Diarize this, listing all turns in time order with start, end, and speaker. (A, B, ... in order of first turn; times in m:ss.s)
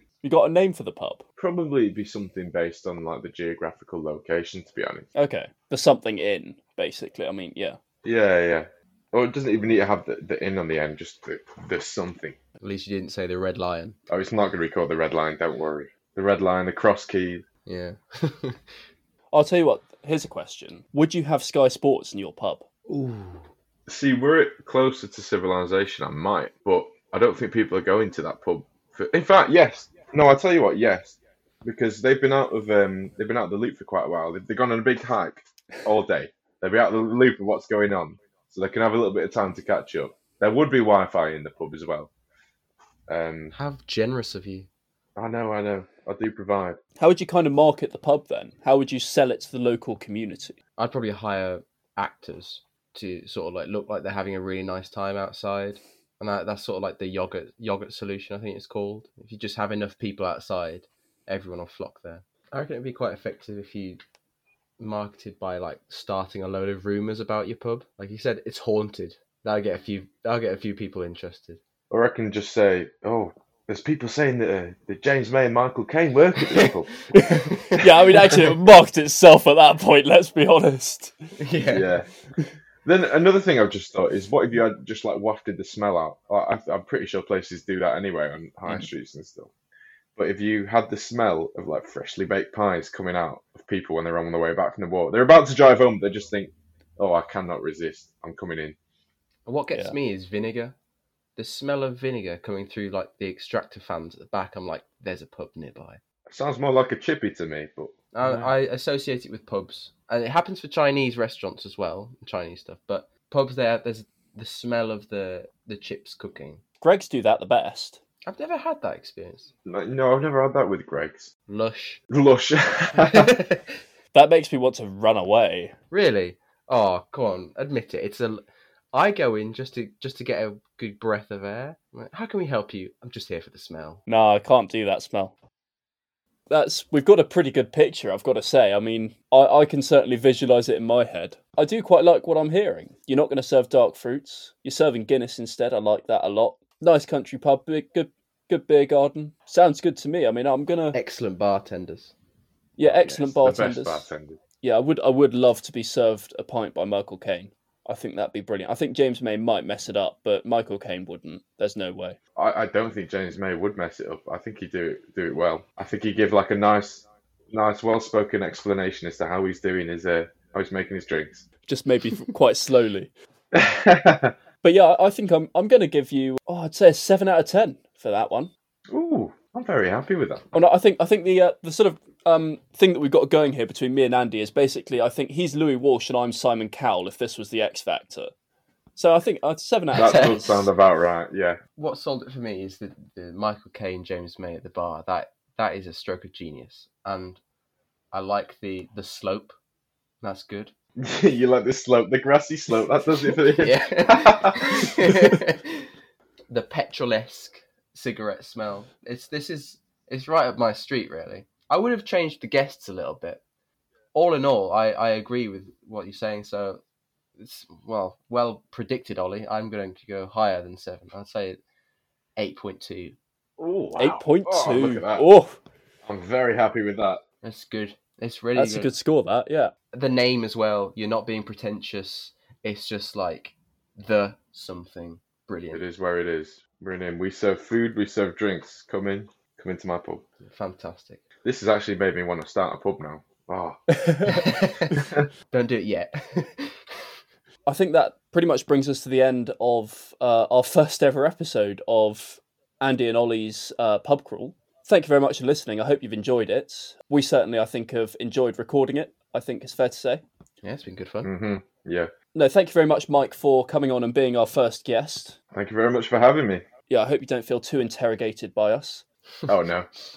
0:00.2-0:01.2 A
0:01.4-0:05.0 B
0:05.1-0:07.8 A
0:08.0-0:12.4 B
0:12.6-0:14.0 C
0:14.1-0:17.4 B
0:17.6-0:18.6 C
0:19.3-0:22.7 A
0:22.9-0:23.5 C
0:23.9-0:42.1 B
0:43.1-0:43.5 B
0:43.5-0:44.7 C
0:45.2-0:46.8 B
0:47.0-0:50.6 A
0:50.8-1:04.0 C
1:04.8-1:11.6 C
1:11.9-1:17.0 B
1:16.5-1:18.4 C
1:17.7-1:21.2 A
1:21.4-1:21.9 C
1:21.7-1:22.1 B
1:22.8-1:29.5 B
1:30.2-1:38.8 B
1:39.5-1:40.8 C
1:41.4-1:46.0 C
1:46.3-1:48.5 B
1:48.1-1:56.6 C
1:56.8-1:58.0 A
1:58.3-1:59.5 C
1:59.6-2:01.3 B
2:01.5-2:02.0 C
2:02.1-2:03.3 B
2:02.9-2:03.7 C
2:04.1-2:05.7 A
2:05.9-2:08.4 C
2:08.9-2:14.0 C
2:14.1-2:15.3 A
2:16.5-2:31.0 A
2:30.9-2:32.1 C
2:32.8-2:34.1 A
2:32.8-2:34.4 B
2:34.6-2:42.2 A
2:42.4-2:51.4 B
2:51.7-2:53.1 A
2:53.5-2:54.3 B
2:54.6-2:58.5 A
2:58.9-3:00.4 B
3:00.5-3:08.3 A
3:09.0-3:10.7 A
3:10.0-3:10.3 C
3:10.0-3:11.6 B
3:11.8-3:17.4 C
3:18.1-3:19.5 C
3:20.2-3:20.7 C
3:21.0-3:25.3 B
3:23.6-3:25.9 C
3:26.5-3:33.4 C
3:34.1-3:36.8 C
3:37.4-3:41.6 C
3:42.4-3:43.2 C
3:43.6-3:45.2 B
3:44.0-3:45.6 A
3:46.0-3:47.2 B
3:47.4-3:48.9 C
3:48.6-3:49.7 A
3:49.9-3:55.8 C
3:55.7-4:00.2 B
4:00.4-4:01.2 C
4:01.4-4:03.8 B
4:03.9-4:04.6 A
4:04.2-4:07.0 C
4:04.9-4:05.2 B
4:07.6-4:20.2 A
4:20.6-4:21.3 C
4:21.2-4:22.1 B
4:22.3-4:25.4 A
4:25.5-4:26.6 B
4:26.9-4:29.0 A
4:29.5-4:29.9 B